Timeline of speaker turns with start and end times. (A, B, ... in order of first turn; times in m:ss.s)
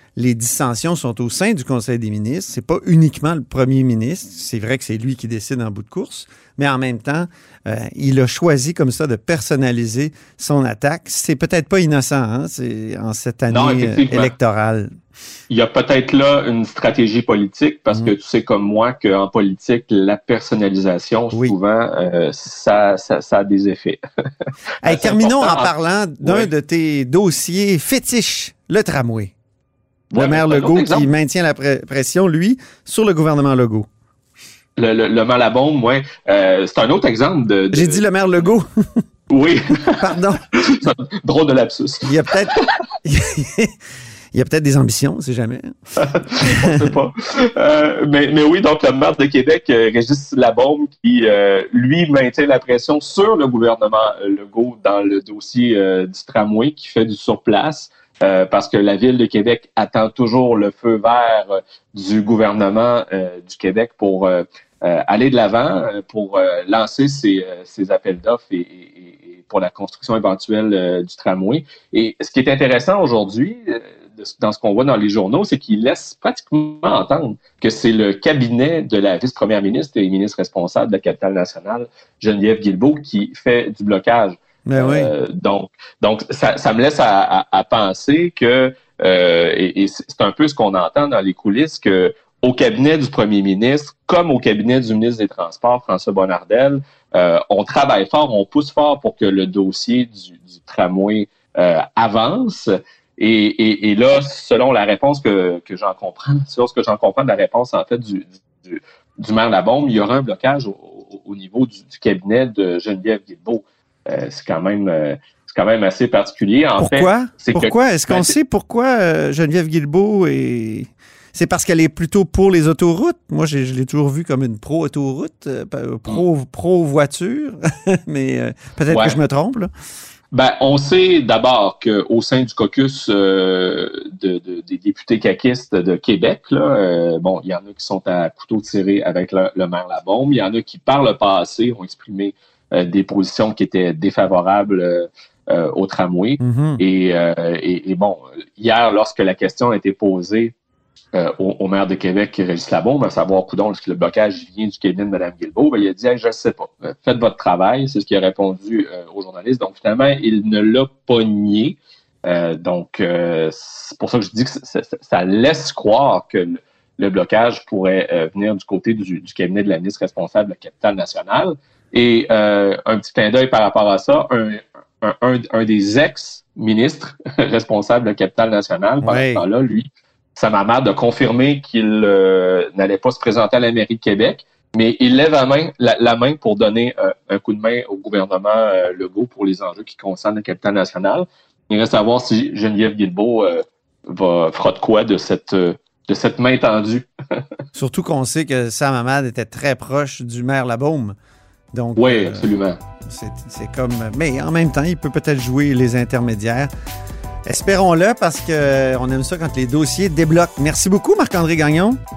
0:00.2-0:14.9 A
0:13.5-0:14.3 B
0:15.5-0:26.5 B
0:24.8-0:29.3 A
0:30.1-0:31.1 B
0:30.1-0:33.9 A
0:34.8-0:38.1 B
0:37.7-0:39.0 A
0:39.3-0:42.7 B
0:40.0-0:40.5 A
0:42.0-0:43.8 A
0:44.3-0:45.7 A
0:46.0-1:58.4 B
0:46.4-0:46.9 A
1:24.7-1:25.1 A
1:56.8-2:09.7 A
2:08.9-2:09.2 B
2:10.3-2:30.5 B
2:26.4-2:26.8 A
2:31.2-3:17.4 B
2:59.0-2:59.4 A
3:17.8-3:21.2 A
3:21.7-3:22.6 A
3:22.0-3:22.8 B
3:23.1-3:26.7 A
3:27.5-3:32.0 A